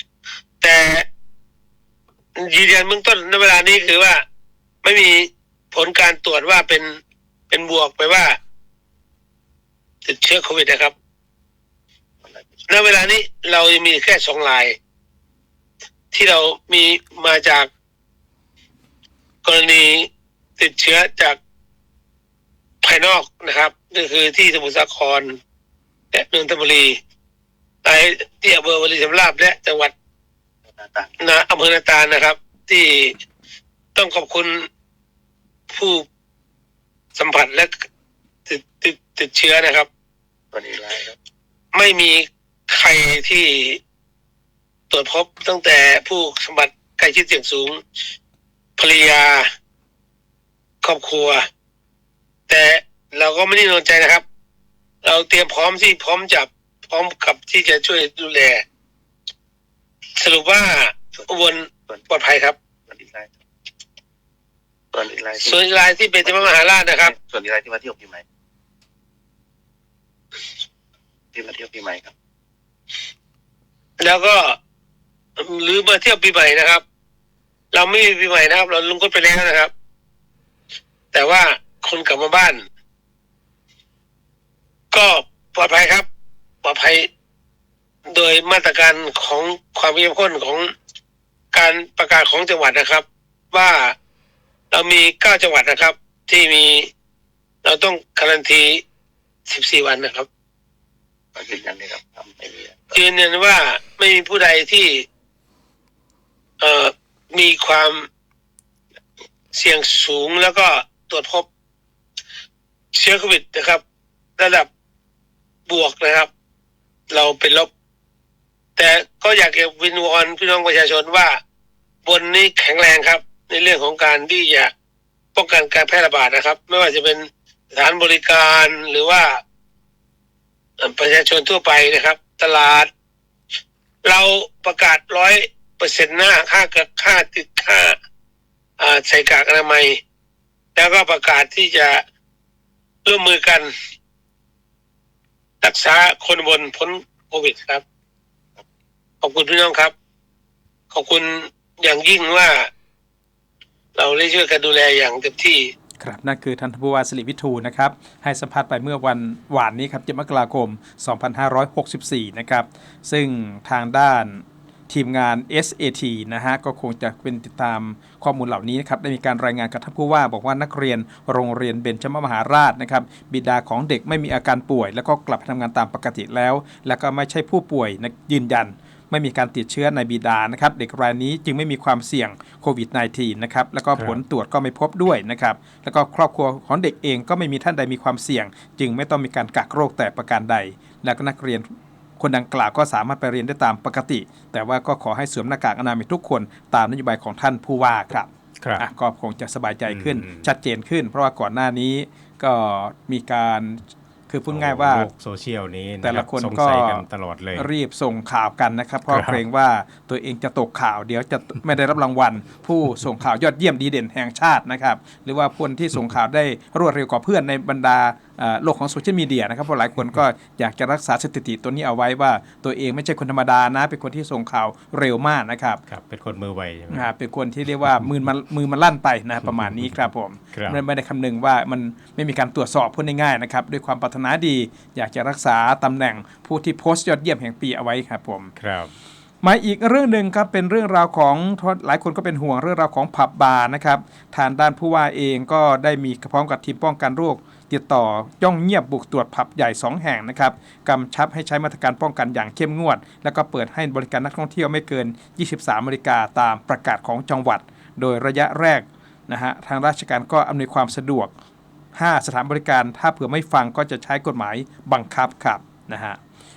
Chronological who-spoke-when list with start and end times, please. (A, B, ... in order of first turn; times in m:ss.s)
0:00.6-0:01.0 A
0:02.4-0:04.2 A
0:04.8-0:07.0 A
0:07.5-0:08.4 A
0:10.0-0:10.9 A
0:12.7-0:14.8 A
0:16.1-0:17.7 A
0:19.4-0:21.4 A
0:22.8-0:25.4 A
0:26.1-0:27.0 A
0:27.8-0:29.9 A
0:31.2-0:33.2 A
0:33.9-0:34.7 A
0:35.7-0:36.0 A
0:37.2-0:37.8 A
0:38.5-0:39.9 A
0:40.5-0:41.1 B
0:41.7-0:43.8 A
0:44.9-0:47.8 A
0:48.8-0:49.5 A
0:50.8-0:51.5 A
0:52.5-0:54.2 A
0:55.0-0:58.6 A
1:00.2-1:02.6 A
1:02.9-1:03.3 B
1:04.9-1:05.6 B
1:05.4-1:07.1 A
1:07.0-1:08.2 B
1:11.3-1:12.1 B
1:14.0-1:14.6 A
1:15.4-1:16.8 A
1:17.7-1:19.7 A
1:21.1-1:22.6 A
1:24.9-1:26.1 A
1:26.6-1:27.1 A
1:28.1-1:30.7 A
1:31.5-1:34.0 A
1:34.7-1:36.9 A
1:37.6-1:38.8 A
1:39.5-1:40.3 A
1:41.4-1:42.7 B
1:42.9-1:45.0 A
1:46.6-1:48.1 A
1:49.5-1:51.5 A
1:52.9-1:53.8 A
1:54.4-1:54.7 A
1:55.7-1:56.3 A
1:57.1-1:57.7 A
1:58.8-2:01.4 A
2:02.0-2:04.7 A
2:05.3-2:09.4 A
2:10.8-2:12.9 A
2:14.0-2:18.0 A
2:18.8-2:20.0 A
2:20.8-2:22.0 A
2:23.0-2:23.7 A
2:25.6-2:27.8 A
2:29.2-2:29.9 A
2:30.9-2:32.7 A
2:34.0-2:35.7 A
2:36.0-3:11.6 C
3:12.2-3:25.1 C
3:19.9-3:20.5 D
3:24.5-3:27.7 D
3:26.0-3:45.8 C
3:29.1-3:29.4 D
3:45.9-3:47.1 D
3:46.9-3:58.5 C
3:50.5-3:50.8 D
3:58.6-3:58.9 D
3:59.4-4:21.3 C
4:22.0-4:26.2 C